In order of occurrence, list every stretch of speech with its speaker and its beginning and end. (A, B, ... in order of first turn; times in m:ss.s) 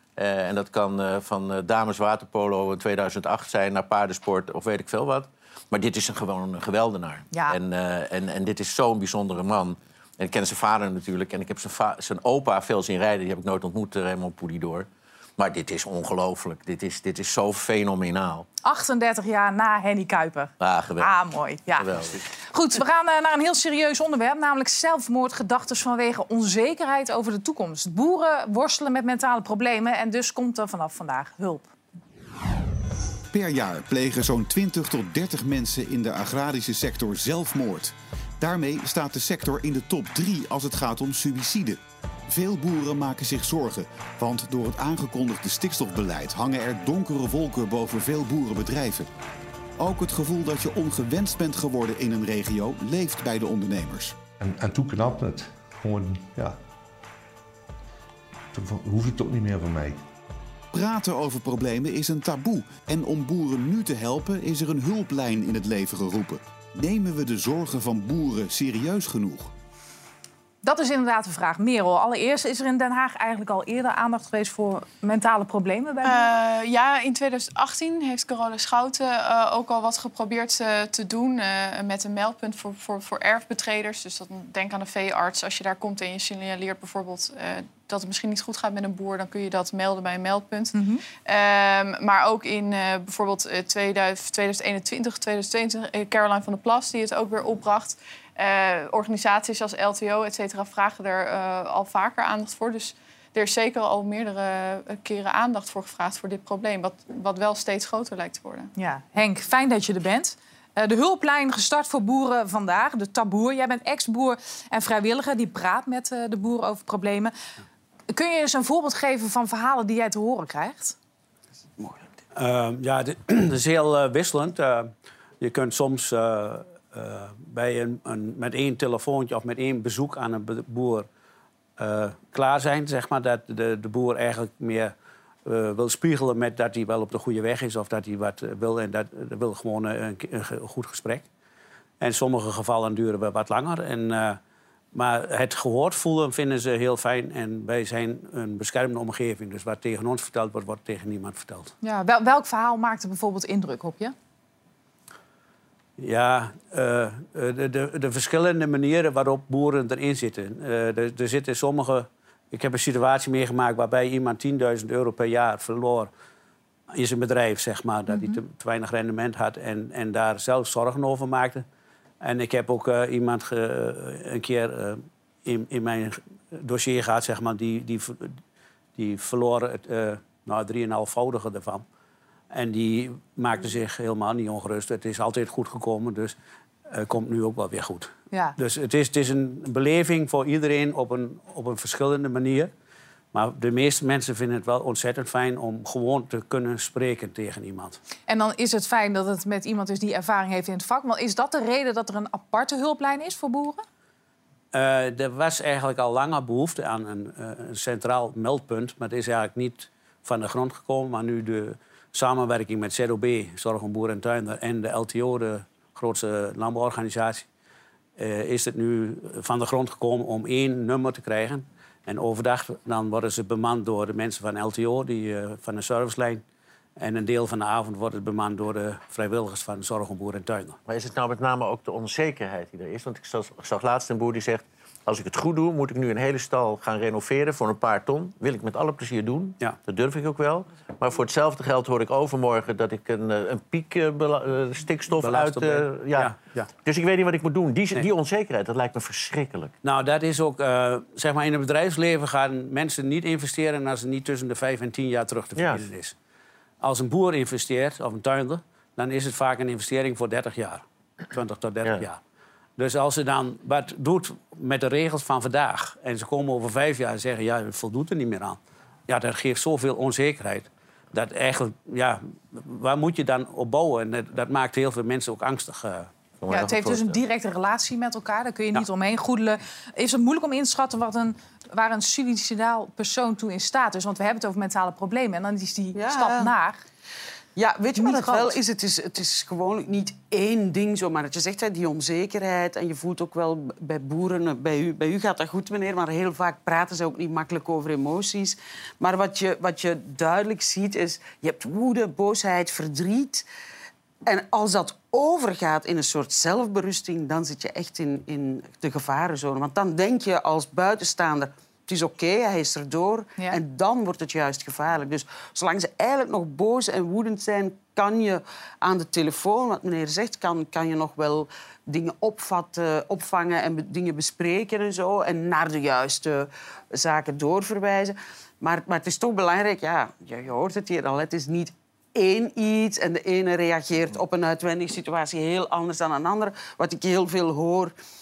0:00.2-0:18.5 A
0:07.3-0:07.6 B
0:18.6-0:31.7 B
0:20.6-0:21.2 A
0:21.7-0:22.2 A
0:33.3-0:49.1 C
0:49.8-0:54.2 C
0:54.4-0:56.6 D
0:58.5-1:00.0 D
1:00.7-1:09.5 C
1:10.6-1:16.4 B
1:16.0-1:48.7 E
1:30.7-1:31.0 B
1:48.8-1:57.3 B
1:58.1-2:01.0 B
2:01.8-2:02.1 F
2:02.4-2:11.1 G
2:11.8-2:14.9 G
2:15.5-2:21.3 G
2:22.0-2:24.4 G
2:24.9-2:31.7 G
2:31.8-2:34.1 B
2:36.0-2:46.1 G
2:46.9-2:51.6 G
2:52.2-2:58.4 G
2:59.0-3:01.8 G
3:02.5-3:06.4 G
3:06.9-3:12.7 G
3:08.3-3:08.6 B
3:13.3-3:18.0 G
3:18.3-3:23.8 B
3:24.7-3:37.4 G
3:38.2-3:46.4 G
3:47.0-3:50.8 G
3:50.9-4:09.7 A
4:05.2-4:06.7 G
4:09.8-4:16.2 G
4:15.6-4:15.8 A
4:16.8-4:22.2 G
4:22.8-4:36.1 G
4:36.4-4:37.2 A
4:36.5-4:46.8 B
4:46.0-4:46.5 F
4:47.6-5:03.5 F
4:48.0-4:48.5 B
5:04.3-5:37.9 F